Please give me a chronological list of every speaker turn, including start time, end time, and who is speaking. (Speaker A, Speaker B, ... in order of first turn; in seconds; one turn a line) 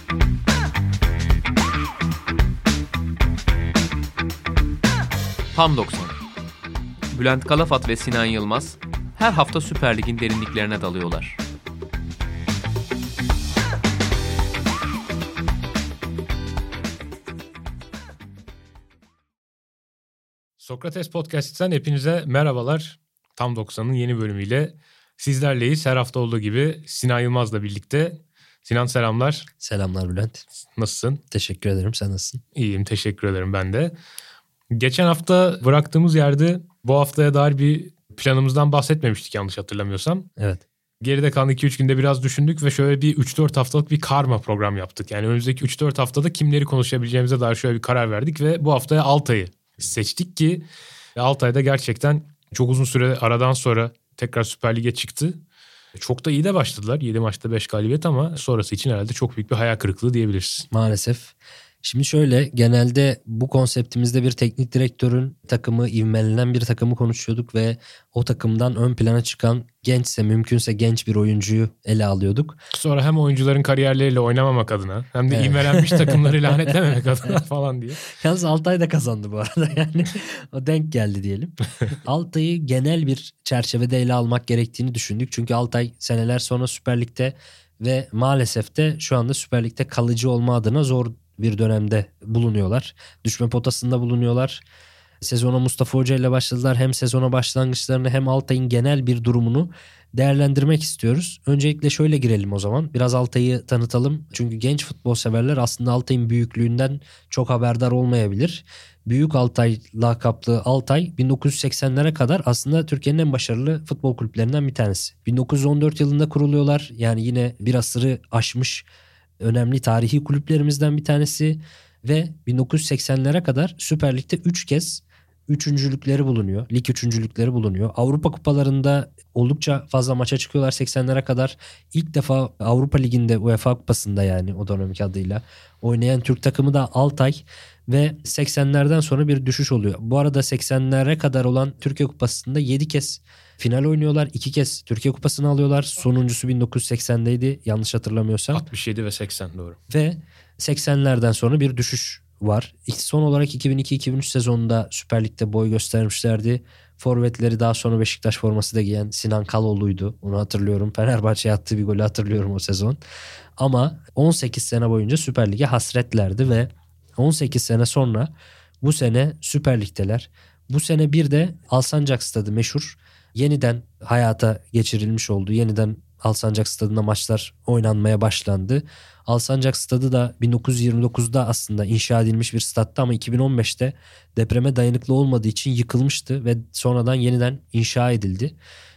Speaker A: 5.5-6.2
Speaker A: 7.1-11.4
Speaker B: 20.6-29.5
Speaker C: 29.6-30.4
Speaker B: 30.7-31.2
Speaker C: 31.3-32.4
Speaker B: 32.5-33.9
Speaker B: 34.7-40.3
Speaker C: 40.4-40.6
Speaker B: 41.0-50.6
Speaker B: 51.1-55.4
Speaker B: 55.9-60.7
Speaker C: 60.7-72.6
Speaker B: 72.7-78.0
Speaker C: 75.3-76.7
Speaker C: 78.0-94.6
Speaker C: 95.2-118.9
Speaker C: 119.4-148.6
Speaker B: 148.5-149.8
Speaker C: 149.9-163.0
Speaker C: 163.6-188.6